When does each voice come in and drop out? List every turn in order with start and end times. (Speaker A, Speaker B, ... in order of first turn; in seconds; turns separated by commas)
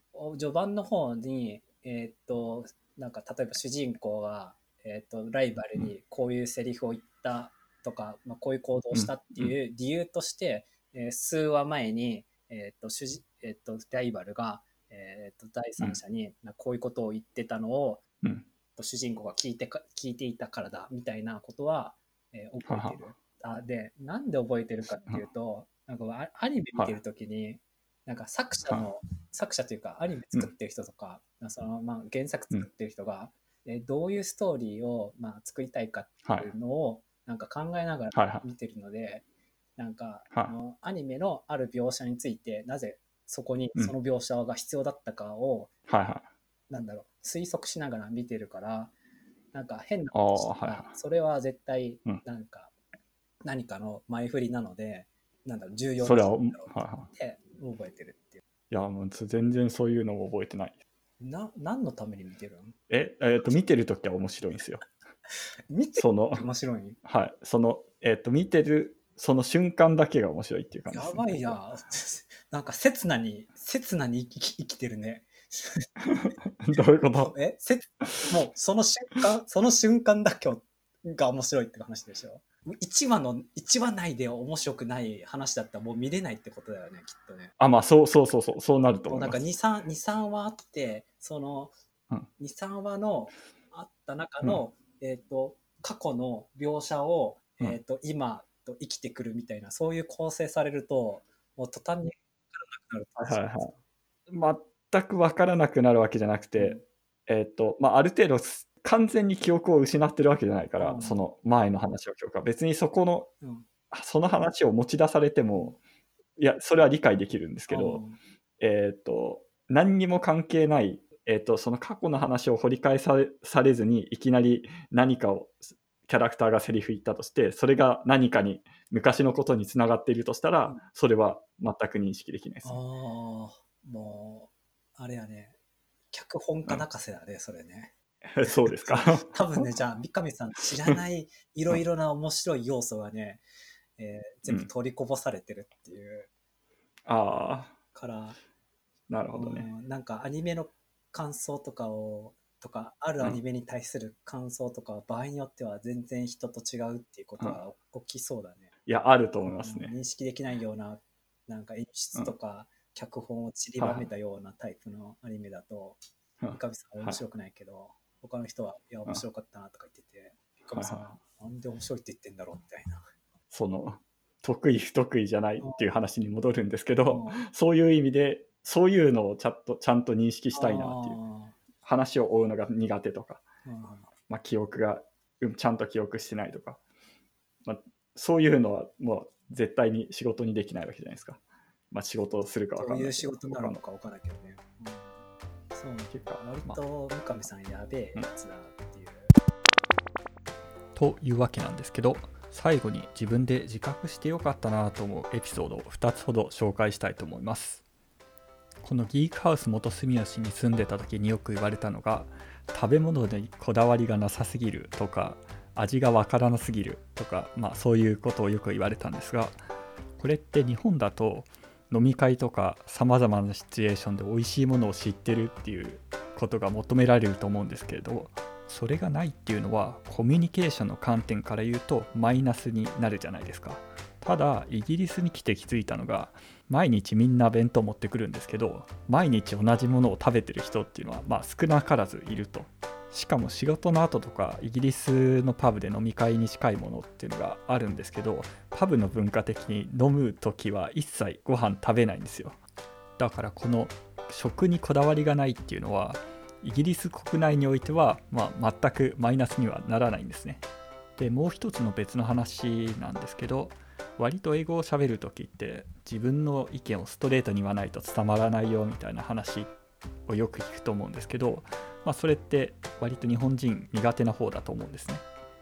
Speaker A: 0.1-18.0, Speaker B: 8.9-9.5, Speaker A: 18.8-39.2, Speaker B: 22.6-23.0, Speaker B: 36.2-36.5, Speaker B: 38.1-38.5, Speaker A: 39.8-45.7, Speaker B: 45.9-46.3, Speaker A: 46.7-48.9, Speaker A: 49.5-52.7, Speaker B: 50.1-50.9, Speaker A: 53.4-58.3, Speaker B: 56.0-57.1, Speaker B: 58.7-60.8, Speaker A: 61.2-62.8, Speaker B: 62.9-64.8, Speaker A: 65.7-67.0, Speaker B: 66.0-66.4, Speaker B: 67.0-71.5, Speaker A: 70.9-75.9, Speaker B: 76.0-77.3, Speaker A: 77.2-87.5, Speaker B: 78.0-78.3, Speaker B: 87.6-89.4, Speaker A: 89.1-91.7, Speaker A: 92.4-103.8, Speaker B: 103.2-103.7, Speaker B: 104.3-113.3, Speaker A: 106.6-106.8, Speaker A: 110.8-111.2, Speaker A: 113.4-113.7, Speaker B: 113.9-115.8, Speaker B: 116.4-118.0, Speaker A: 117.7-118.2, Speaker B: 118.6-132.8, Speaker A: 132.6-135.5, Speaker A: 136.1-143.4, Speaker B: 138.3-139.7, Speaker A: 144.0-146.3, Speaker B: 147.1-147.7, Speaker A: 147.9-148.4, Speaker B: 149.1-149.7, Speaker A: 149.3-158.7, Speaker B: 158.8-159.9, Speaker A: 159.4-173.0, Speaker B: 163.8-164.1, Speaker B: 166.4-167.2, Speaker B: 170.7-171.0, Speaker B: 173.5-181.2, Speaker A: 177.1-177.4, Speaker A: 180.5-181.6, Speaker B: 181.8-183.4, Speaker A: 183.7-184.1, Speaker B: 184.3-186.8, Speaker B: 187.6-191.4, Speaker B: 191.9-193.8, Speaker A: 192.8-195.1, Speaker A: 195.7-199.3, Speaker B: 196.1-196.8, Speaker B: 200.9-207.8, Speaker B: 208.8-219.6, Speaker B: 220.2-252.6, Speaker B: 253.2-260.6, Speaker B: 261.2-269.7, Speaker B: 270.3-275.2